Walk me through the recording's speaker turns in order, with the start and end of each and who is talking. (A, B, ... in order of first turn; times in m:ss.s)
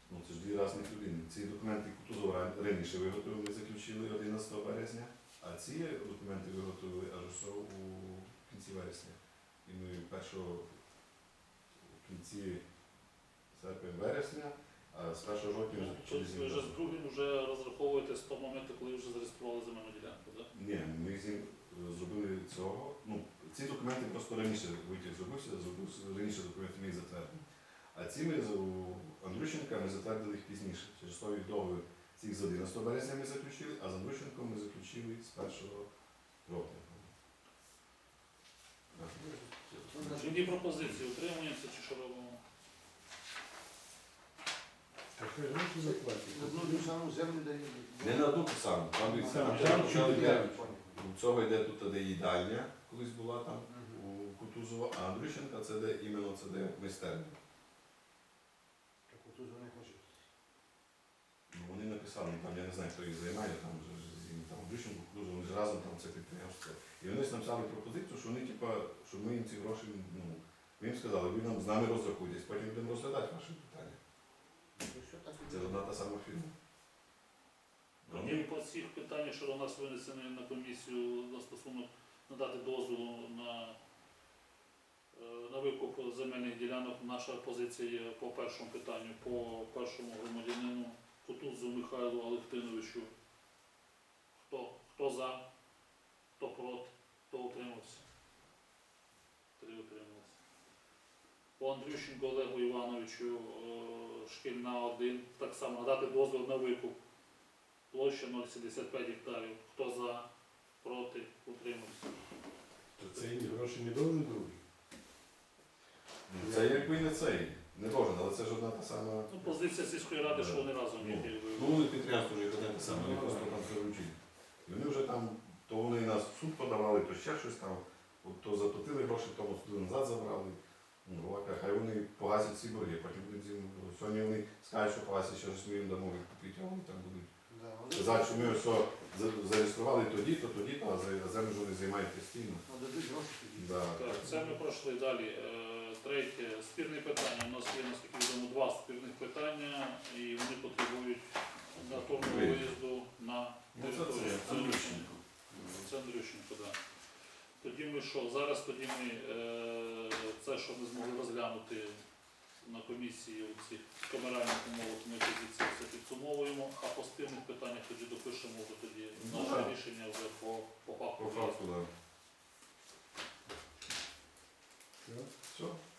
0:00.1-0:10.7 A
0:11.8-0:12.6 A
0:13.5-0:16.7 A
0:15.7-0:20.5 B
0:20.5-0:35.9 A
0:36.4-0:37.1 A
0:38.9-0:40.9 A
0:39.9-0:40.6 C
0:40.1-0:42.4 B
0:45.1-0:46.9 D
0:45.8-0:51.0 C
0:48.0-0:57.4 A
0:49.3-0:50.7 D
0:53.7-0:54.0 C
0:59.1-1:00.2 C
1:01.5-1:14.0 A
1:14.8-1:15.9 C
1:15.4-1:16.5 A
1:18.0-1:18.5 A
1:18.1-1:23.8 B
1:25.1-1:33.1 B
1:34.4-1:35.4 B
1:36.4-1:38.0 B
1:39.6-1:40.4 B
1:41.6-1:47.0 B
1:47.9-1:50.3 B
1:50.8-1:52.1 B
1:53.0-1:54.6 D
1:56.3-1:59.3 A
1:56.4-1:56.7 D
1:59.3-2:01.9 B
2:00.2-2:17.3 A
2:02.8-2:03.7 D
2:17.5-2:18.6 C
2:17.9-2:22.6 A
2:22.6-2:23.8 C
2:23.6-2:24.6 A
2:23.9-2:36.8 B
2:31.8-2:32.7 A
2:33.7-2:35.9 A
2:37.6-2:42.0 B
2:42.6-2:51.6 B
2:49.2-2:49.7 A
2:51.2-2:51.9 A
2:55.0-2:55.3 D
2:55.5-2:55.8 A